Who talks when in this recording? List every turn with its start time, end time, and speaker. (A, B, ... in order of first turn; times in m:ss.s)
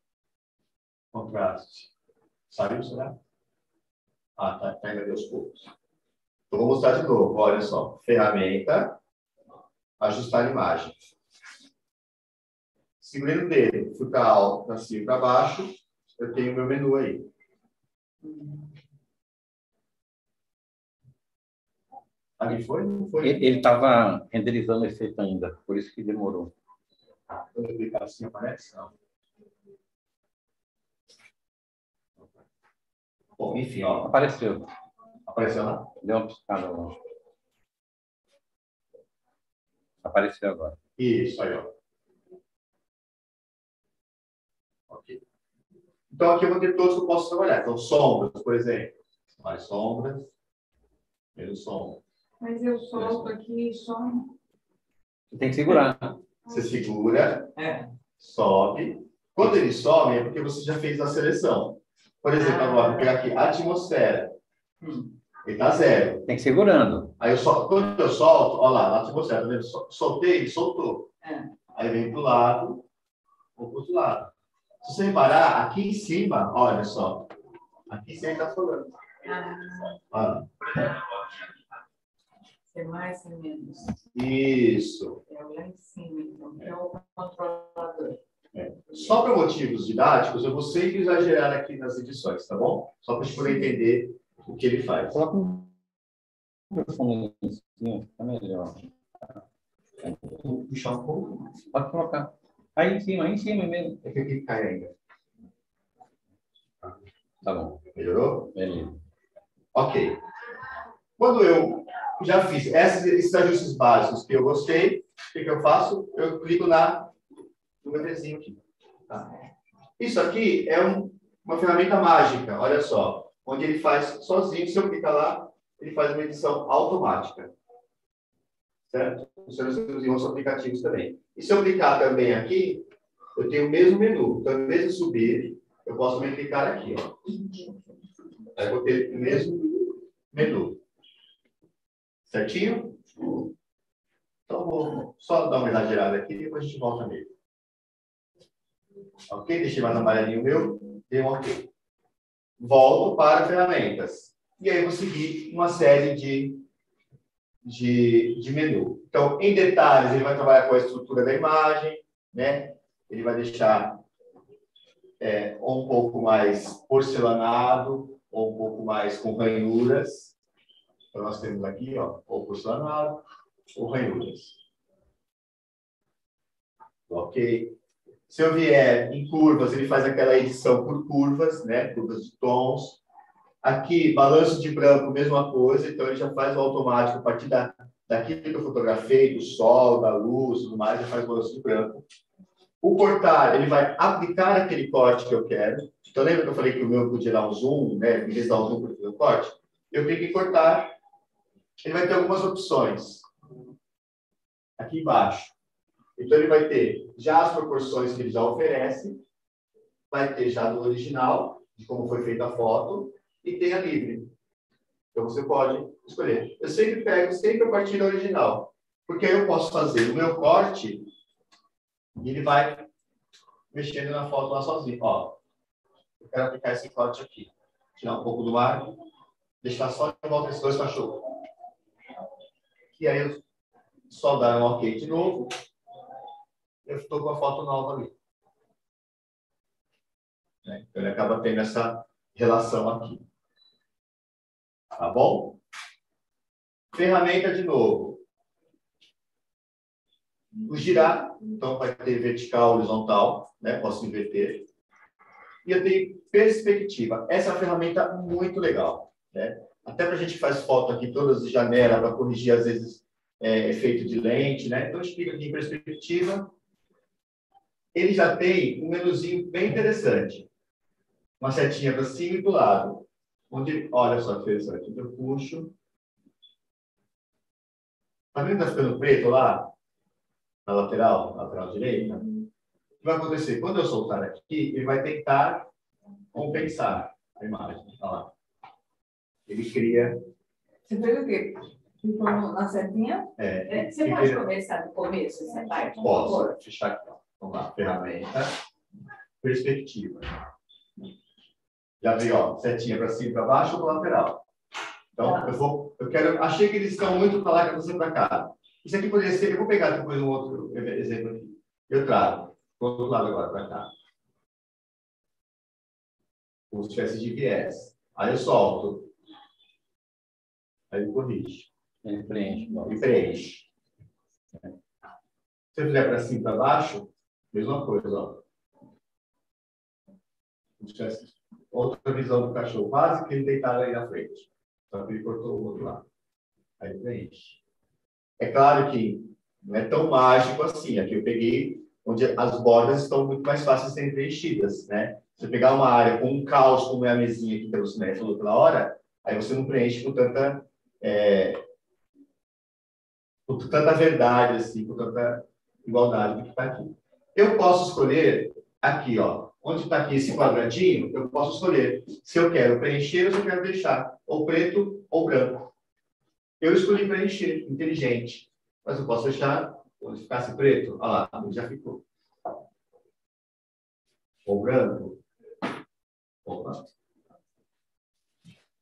0:01.1-0:01.9 A
0:02.5-0:03.2 A
0:04.4-0:05.7 A
0:06.5-0:09.0 A
0:10.0-0:11.1 A
0:13.0-0:17.3 A
0:22.4-0:23.4 A
0:23.2-0:26.5 B
0:27.5-0:28.9 A
0:33.4-0:34.1 A
0:34.0-0:34.7 B
0:35.3-0:35.9 A
0:36.0-0:37.0 B
0:40.0-0:40.8 B
0:41.0-0:41.7 A
0:44.9-0:45.2 A
0:46.1-0:50.3 A
0:51.4-0:52.0 A
0:52.4-0:54.3 C
0:55.3-0:56.2 B
0:56.5-0:57.5 A
0:57.6-0:57.8 C
0:58.2-1:04.4 A
1:05.4-1:06.3 A
1:06.3-1:07.1 B
1:07.2-1:11.1 A
1:11.7-1:12.8 A
1:13.6-1:14.3 A
1:14.8-1:17.3 A
1:17.9-1:18.9 A
1:19.2-1:20.0 C
1:20.1-1:20.7 A
1:22.7-1:24.0 C
1:24.1-1:25.2 A
1:25.3-1:28.2 C
1:28.5-1:35.1 A
1:35.1-1:35.7 B
1:36.7-1:38.9 B
1:40.0-1:40.4 B
1:40.4-1:41.5 A
1:41.7-1:44.0 B
1:44.0-1:44.9 A
1:47.4-1:47.8 B
1:47.9-1:48.5 A
1:48.5-1:49.0 B
1:49.7-1:50.2 A
1:51.2-1:57.1 A
1:57.8-1:59.3 A
2:00.0-2:07.5 A
2:08.9-2:17.2 A
2:18.6-2:20.8 A
2:22.3-2:23.1 A
2:24.5-2:27.3 A
2:29.3-2:31.7 A
2:32.6-2:36.6 A
2:37.6-2:44.0 A
2:45.2-2:50.3 A
2:51.1-2:53.2 A
2:53.7-2:54.6 A
2:57.1-2:57.8 A
2:58.3-3:03.0 A
3:03.6-3:12.0 A
3:12.8-3:20.9 A
3:21.8-3:23.2 A
3:24.8-3:25.5 A
3:26.2-3:29.2 A
3:30.1-3:34.3 A
3:35.1-3:41.1 A
3:42.2-3:42.9 A
3:43.7-3:45.4 A
3:46.2-3:49.0 A
3:49.6-3:51.3 A
3:52.9-3:53.4 A
3:54.1-3:55.5 A
3:56.8-3:58.1 A
4:00.6-4:03.2 A
4:04.9-4:05.6 A
4:06.9-4:08.2 A
4:10.7-4:14.7 A
4:15.6-4:26.5 A
4:27.9-4:30.5 A
4:31.4-4:35.7 A
4:38.3-4:39.7 A
4:40.6-4:42.3 A
4:43.0-4:45.7 A
4:46.3-4:48.3 A
4:49.5-4:50.2 A
4:50.8-4:56.5 C
4:53.4-4:54.4 A
4:56.0-4:58.5 A
4:59.4-5:00.4 A
5:02.0-5:04.4 A
5:05.1-5:13.9 A
5:16.7-5:19.1 A
5:20.9-5:21.7 A
5:22.0-5:23.0 B
5:22.8-5:23.6 A
5:25.7-5:28.4 A
5:30.8-5:36.0 A
5:36.8-5:37.6 A
5:38.4-5:51.6 A
5:53.5-6:05.7 A
6:06.6-6:12.0 A
6:14.4-6:15.2 A
6:16.4-6:16.9 A